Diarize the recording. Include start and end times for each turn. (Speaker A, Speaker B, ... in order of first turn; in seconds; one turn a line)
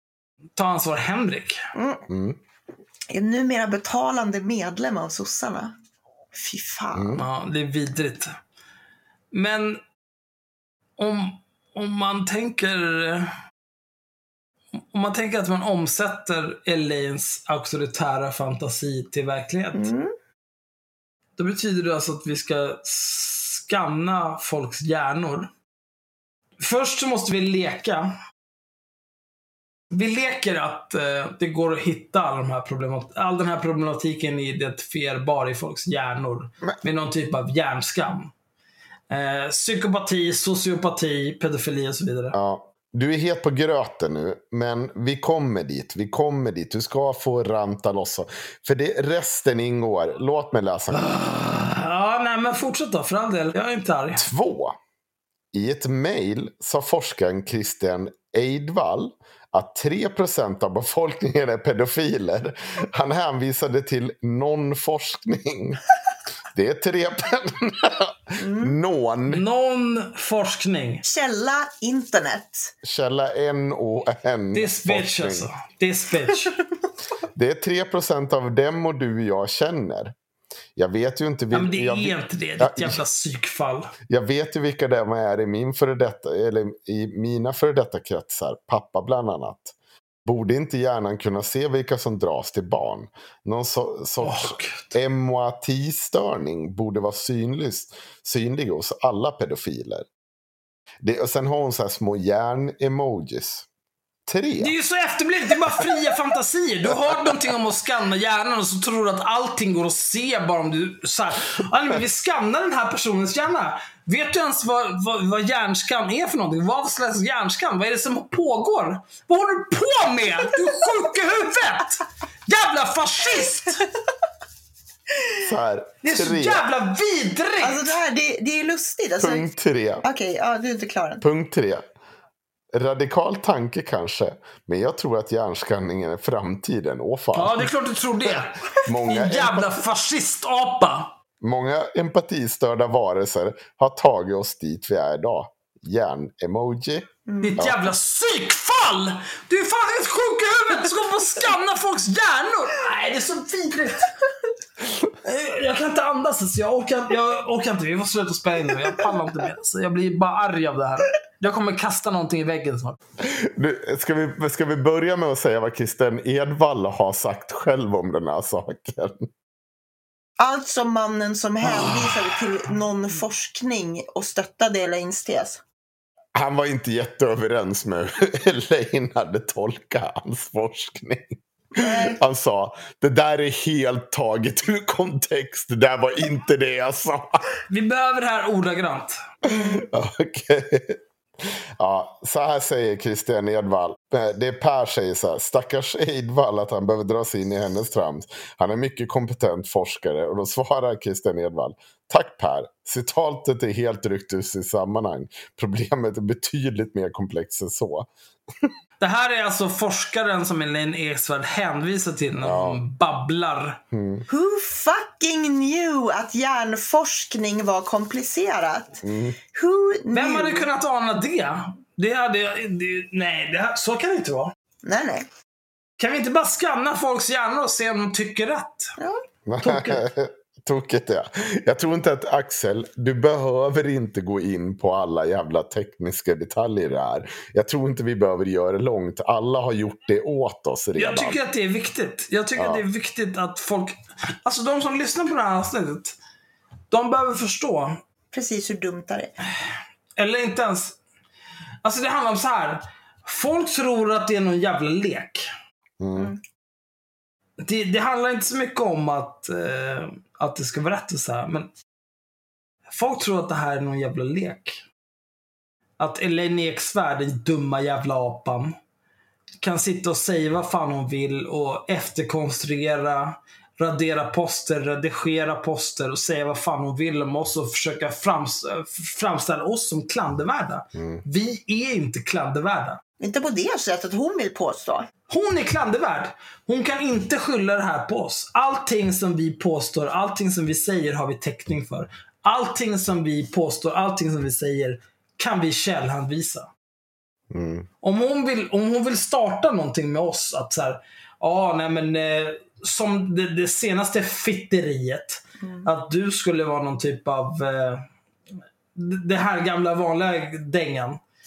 Speaker A: 0.6-1.6
Speaker B: 1.7-2.0
Speaker C: 2.1-2.4
Speaker B: 3.1-5.7
Speaker B: 6.3-7.2
Speaker C: 6.9-7.2
Speaker A: 7.1-8.3
Speaker A: 9.3-9.8
Speaker A: 11.0-13.3
Speaker A: 14.9-19.9
Speaker B: 19.7-20.1
Speaker A: 21.4-25.5
Speaker A: 26.6-28.1
Speaker A: 29.9-38.3
Speaker A: 39.1-42.4
Speaker C: 42.3-51.1
Speaker A: 50.9-54.2
Speaker C: 54.1-54.8
Speaker C: 55.5-65.8
Speaker C: 66.5-69.4
Speaker B: 68.4-68.8
Speaker A: 69.3-71.0
Speaker B: 71.0-72.7
Speaker C: 72.8-75.5
Speaker A: 74.5-76.6
Speaker C: 77.3-80.2
Speaker C: 80.8-83.0
Speaker A: 81.5-83.9
Speaker C: 84.1-100.1
Speaker A: 94.2-94.9
Speaker C: 101.0-103.7
Speaker C: 104.2-104.7
Speaker A: 104.6-123.8
Speaker B: 123.4-123.8
Speaker C: 125.4-126.7
Speaker A: 126.0-127.9
Speaker B: 127.6-129.5
Speaker C: 129.2-130.0
Speaker B: 130.0-131.2
Speaker C: 131.2-131.8
Speaker C: 132.7-137.7
Speaker A: 137.3-141.1
Speaker C: 138.8-139.8
Speaker C: 141.4-147.9
Speaker B: 147.3-147.6
Speaker A: 147.4-154.1
Speaker A: 155.2-163.0
Speaker C: 163.2-169.3
Speaker B: 170.4-175.6
Speaker A: 171.7-172.0
Speaker C: 176.3-187.6
Speaker B: 181.7-182.2
Speaker A: 187.7-189.2
Speaker C: 189.4-208.1
Speaker B: 189.5-189.8
Speaker A: 209.0-213.8
Speaker C: 212.4-212.8
Speaker C: 213.9-214.3
Speaker B: 214.3-219.0
Speaker C: 219.0-219.4
Speaker B: 219.5-220.7
Speaker A: 220.1-224.5
Speaker B: 224.8-225.3
Speaker A: 226.0-228.9
Speaker C: 229.5-241.4
Speaker A: 229.6-230.1
Speaker A: 240.9-246.2
Speaker C: 242.6-242.8
Speaker A: 246.9-248.0
Speaker B: 248.3-249.3
Speaker A: 249.6-251.0
Speaker A: 251.8-255.5
Speaker C: 256.0-256.3
Speaker B: 256.1-256.4
Speaker A: 257.6-261.7
Speaker A: 262.9-264.8
Speaker A: 266.0-268.8
Speaker A: 269.6-283.0
Speaker C: 280.9-281.2
Speaker B: 283.2-285.1
Speaker A: 285.3-296.7
Speaker C: 297.5-297.9
Speaker A: 298.0-308.1
Speaker B: 305.6-305.9
Speaker A: 308.9-311.2